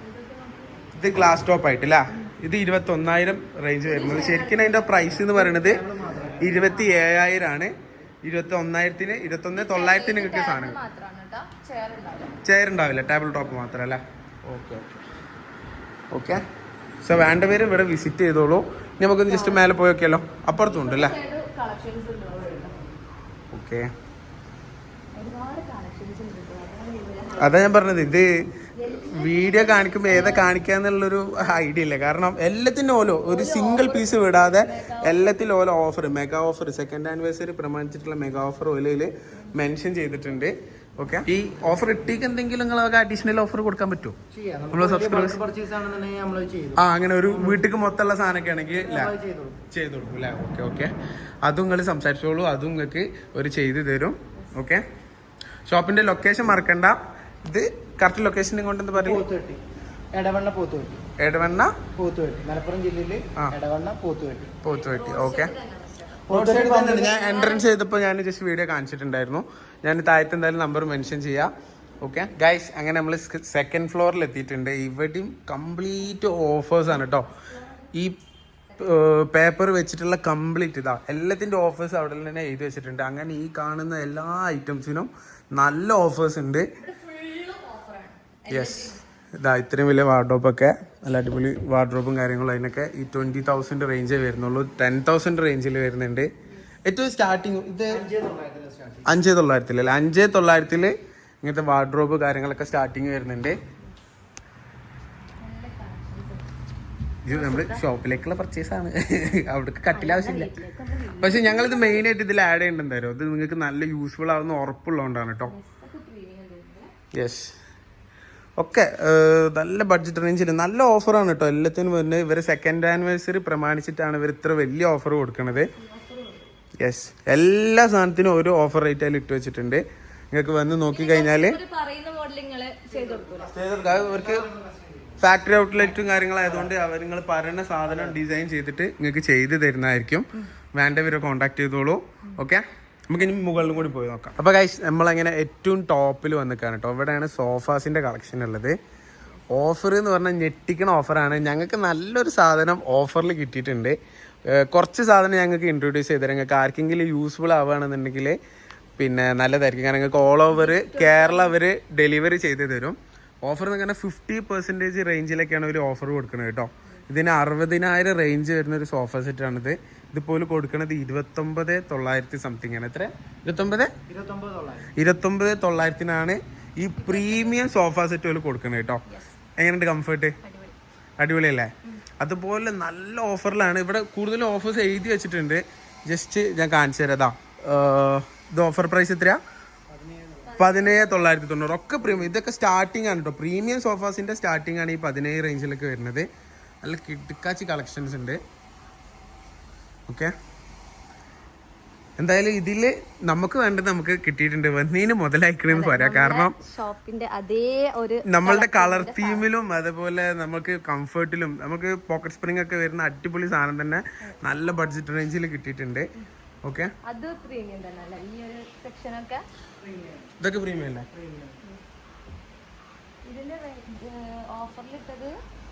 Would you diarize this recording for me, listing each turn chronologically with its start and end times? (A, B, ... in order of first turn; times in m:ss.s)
0:00.3-0:00.8 A
0:00.9-0:05.8 B
0:03.8-0:05.1 A
0:05.2-0:06.6 C
0:06.4-0:10.8 B
0:06.6-0:07.0 A
0:09.5-0:12.4 A
0:12.4-0:15.0 B
0:16.1-0:16.4 B
0:17.0-0:21.2 B
0:19.2-0:19.7 A
0:20.5-0:22.8 A
0:23.5-0:23.9 B
0:25.1-0:27.7 A
0:27.4-0:28.3 B
0:28.7-0:30.5 A
0:29.0-0:44.2 B
0:33.3-0:35.2 A
0:44.3-0:47.6 C
0:44.7-0:45.4 B
0:46.8-0:49.1 B
0:48.8-0:49.6 C
0:49.7-0:50.9 B
0:51.4-0:54.8 B
0:55.7-0:59.2 B
0:58.9-0:59.6 C
1:00.1-1:01.0 C
1:01.2-1:01.7 B
1:02.0-1:04.6 C
1:04.6-1:05.5 B
1:04.7-1:06.2 A
1:06.3-1:07.2 C
1:06.3-1:11.5 B
1:07.0-1:07.7 A
1:12.0-1:17.3 B
1:17.0-1:17.9 A
1:18.8-1:26.7 B
1:26.8-1:29.0 A
1:28.5-1:36.3 B
1:36.8-1:38.0 B
1:37.9-1:39.1 C
1:39.0-1:43.6 B
1:45.4-1:46.4 A
1:47.2-1:50.5 B
1:47.3-1:47.8 A
1:49.9-1:52.0 A
1:51.2-1:55.5 B
1:55.4-1:56.9 A
1:57.1-1:57.5 B
1:58.6-2:05.7 B
2:05.8-2:06.4 A
2:06.8-2:11.6 B
2:10.9-2:13.5 A
2:12.9-2:15.2 C
2:13.5-2:14.5 B
2:15.2-2:28.8 B
2:29.5-2:34.0 B
2:34.5-2:38.4 B
2:39.0-2:53.9 B
2:40.5-2:41.6 A
2:54.1-2:54.9 C
2:55.0-2:59.0 B
2:57.0-2:57.6 A
2:59.1-2:59.3 A
2:59.6-3:00.4 B
3:00.4-3:00.7 A
3:01.2-3:09.4 B
3:09.9-3:10.6 C
3:10.4-3:11.3 A
3:10.6-3:16.3 B
3:16.8-3:18.4 B
3:20.1-3:20.3 B
3:22.2-3:26.5 B
3:25.7-3:29.5 A
3:28.3-3:36.0 B
3:36.6-3:36.9 B
3:37.1-3:39.4 A
3:39.8-3:40.3 C
3:40.4-3:41.1 B
3:41.1-3:41.6 C
3:43.2-3:45.3 A